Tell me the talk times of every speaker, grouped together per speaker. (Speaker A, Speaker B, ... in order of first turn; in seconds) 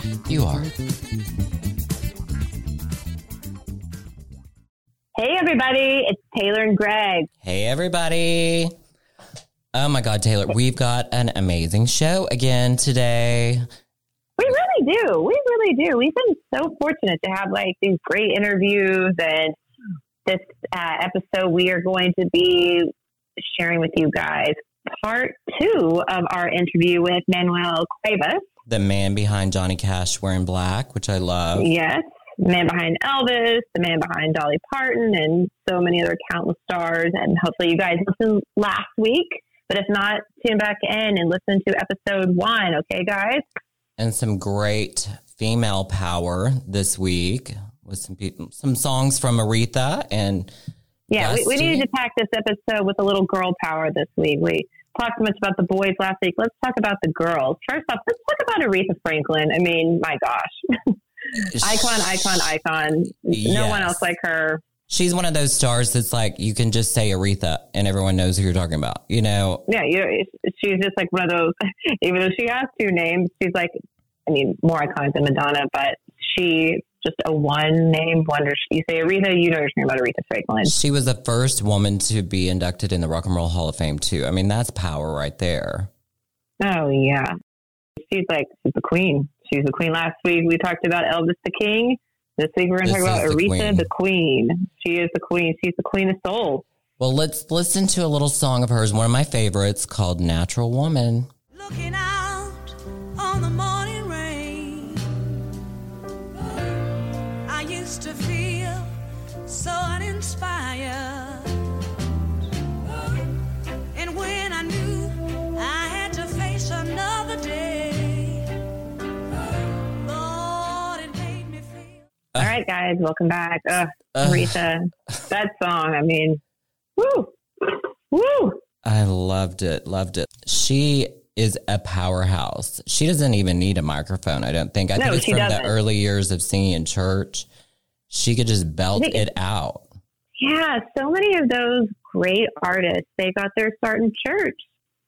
Speaker A: 0.3-0.7, 7.4-8.7, 9.7-13.7, 28.6-31.7, 44.0-50.5, 51.2-51.9, 61.5-62.5, 63.3-64.0, 64.9-69.6, 80.7-85.9, 92.8-93.9, 97.0-101.3, 124.1-124.6, 128.8-137.5, 138.1-139.9
Speaker B: 5.2-7.3, 14.4-19.6, 20.2-28.4, 31.6-43.4, 51.1-64.6, 69.7-73.7, 74.3-80.7, 86.6-87.3, 88.0-96.6, 122.4-126.4, 127.0-128.6, 134.9-135.7, 138.9-139.2, 140.4-144.6
Speaker C: 101.5-105.1, 107.5-108.9, 109.5-111.6, 113.9-118.5, 120.0-122.0